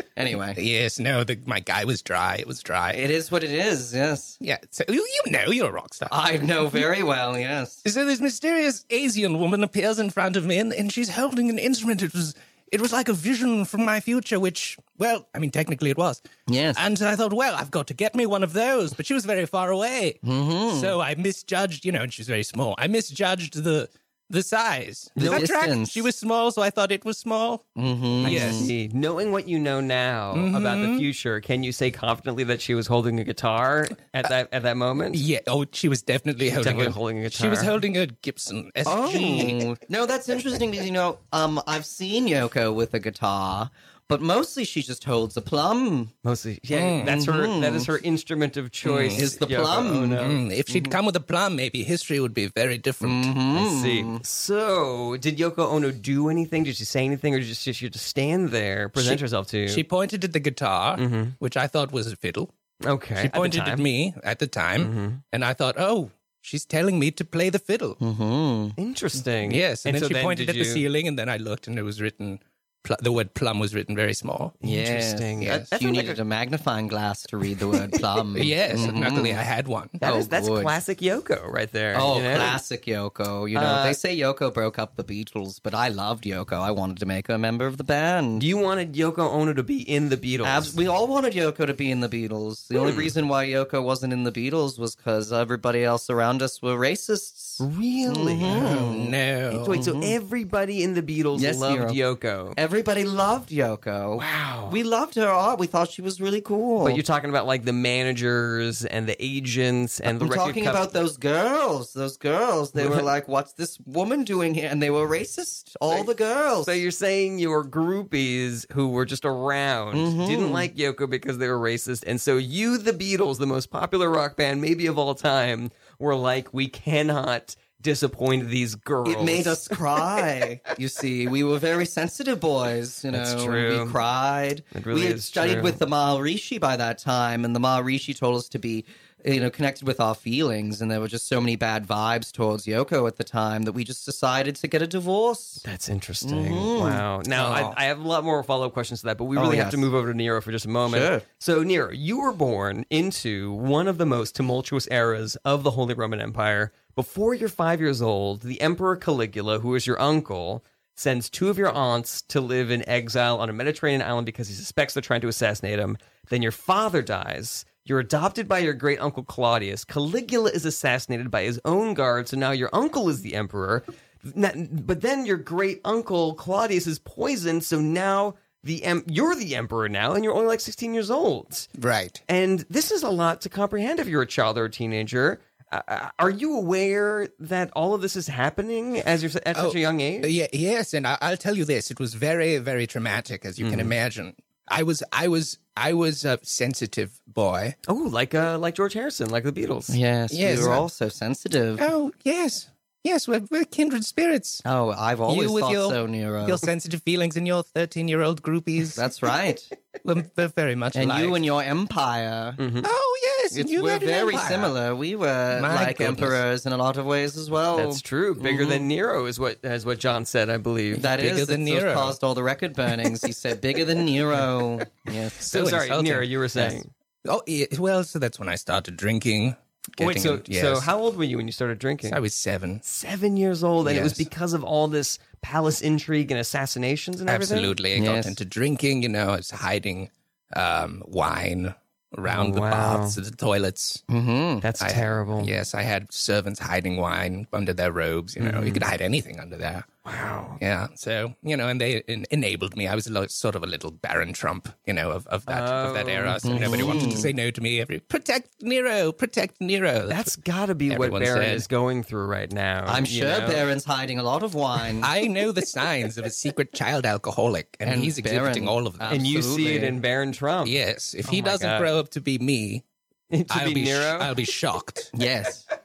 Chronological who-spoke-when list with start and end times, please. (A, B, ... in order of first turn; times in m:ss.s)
0:00.2-0:00.6 A
0:00.5-0:03.0 B
0:02.9-0:04.4 A
0:04.4-0:06.2 B
0:06.1-0:07.8 A
0:07.8-0:16.2 B
0:16.5-0:16.8 A
0:16.8-0:27.7 B
0:20.2-0:21.0 A
0:25.2-0:25.4 C
0:25.2-0:26.1 A
0:27.8-0:28.7 A
0:28.2-0:28.7 B
0:28.2-0:35.2 C
0:30.3-0:31.1 B
0:35.1-0:39.7 B
0:36.4-0:37.7 C
0:38.8-0:46.1 A
0:46.2-0:50.4 C
0:46.7-0:47.2 B
0:47.0-0:47.9 A
0:48.8-0:51.0 A
0:49.0-0:49.3 B
0:50.2-0:53.3 B
0:53.0-0:54.2 A
0:53.5-0:59.8 C
0:59.0-1:02.5 B
1:01.0-1:01.4 C
1:02.8-1:03.9 C
1:03.2-1:08.0 B
1:04.8-1:05.2 C
1:08.0-1:08.8 A
1:08.8-1:10.8 C
1:09.4-1:14.6 B
1:14.6-1:16.2 C
1:14.6-1:19.4 A
1:15.4-1:15.7 B
1:17.7-1:18.2 C
1:18.4-1:20.0 B
1:20.0-1:20.8 A
1:20.0-1:22.6 C
1:21.9-1:28.5 A
1:23.5-1:24.0 C
1:28.4-1:30.8 C
1:30.4-1:39.1 A
1:32.8-1:33.1 C
1:37.6-1:38.7 C
1:38.5-1:39.8 B
1:39.5-1:42.6 C
1:39.6-1:40.2 A
1:41.4-1:42.0 A
1:42.6-1:47.0 A
1:44.1-1:44.8 C
1:46.8-1:50.9 C
1:50.1-1:56.8 A
1:52.8-1:53.1 C
1:56.6-2:10.0 C
1:59.9-2:00.7 A
2:09.0-2:25.6 A
2:13.1-2:14.0 C
2:14.7-2:15.8 C
2:25.6-3:01.7 C
2:26.2-2:27.1 A
2:27.3-2:27.8 B
2:29.4-2:29.9 A
2:30.9-2:31.2 A
3:01.8-3:02.2 B
3:02.3-3:10.3 C
3:09.6-3:17.8 B
3:13.6-3:13.9 C
3:17.9-3:20.0 C
3:19.9-3:21.8 A
3:20.3-3:20.8 B
3:21.8-3:24.6 B
3:24.6-3:26.7 A
3:25.3-3:29.0 B
3:29.0-3:29.7 A
3:30.0-3:31.4 B
3:31.0-3:32.6 A
3:32.6-3:32.9 C
3:32.8-3:34.7 B
3:33.5-3:38.9 A
3:35.5-3:36.4 B
3:37.7-3:41.1 C
3:41.0-3:45.4 A
3:41.0-3:42.2 B
3:45.4-3:46.9 C
3:45.4-3:50.9 B
3:50.0-3:52.2 C
3:52.1-3:52.8 B
3:52.8-3:57.8 C
3:53.8-3:54.2 B
3:57.2-4:04.0 B
3:58.0-3:58.4 A
4:02.3-4:03.2 C
4:04.1-4:04.7 A
4:04.6-4:05.5 C
4:04.8-4:09.9 B
4:08.4-4:08.8 C
4:10.0-4:10.6 C
4:10.6-4:20.4 B
4:15.5-4:17.2 C
4:16.4-4:17.3 A
4:20.1-4:23.6 C
4:20.9-4:21.6 B
4:22.9-4:25.1 A
4:25.0-4:29.2 B
4:27.8-4:30.0 A
4:29.1-4:31.9 C
4:30.6-4:32.8 B
4:33.3-4:34.3 C
4:33.5-4:35.1 B
4:35.1-4:35.6 A